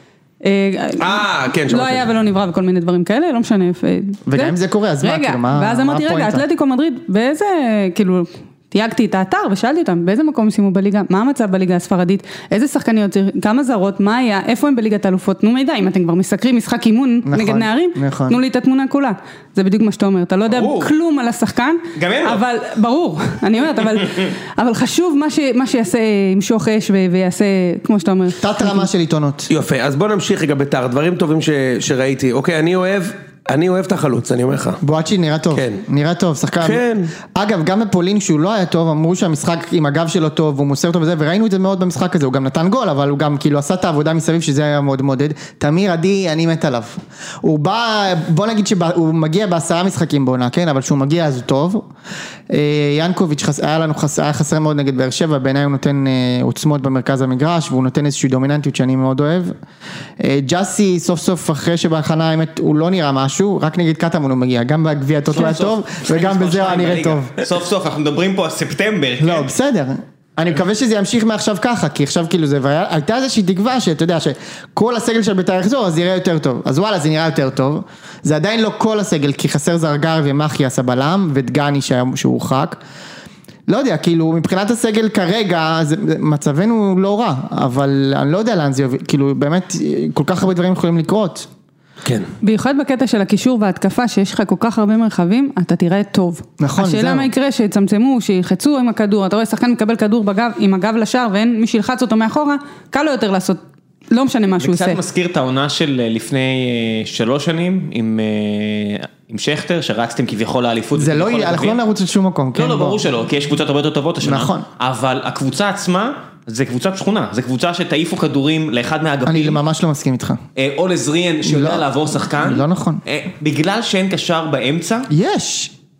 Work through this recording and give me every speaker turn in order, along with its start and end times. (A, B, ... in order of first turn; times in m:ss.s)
0:00.4-0:28.8 A
0:01.0-0:02.1 B
0:04.3-0:06.4 C
0:17.2-0:18.4 C
0:20.5-0:20.9 D
0:21.9-0:22.4 D
0:28.4-0:29.5 C
0:29.5-0:34.8 B
0:34.8-0:51.9 C
0:35.5-0:35.8 B
0:36.6-0:37.1 B
0:52.5-0:59.6 C
1:00.2-1:07.3 C
1:05.3-1:09.5 D
1:09.2-1:22.8 C
1:23.7-1:31.5 C
1:32.0-1:32.3 B
1:32.4-1:45.0 A
1:36.6-1:37.3 C
1:44.6-1:51.8 D
1:50.9-1:53.0 C
1:52.6-1:59.6 D
1:54.2-1:54.6 C
1:59.2-2:00.4 C
2:00.6-2:05.1 D
2:01.4-2:03.0 C
2:05.1-2:05.7 C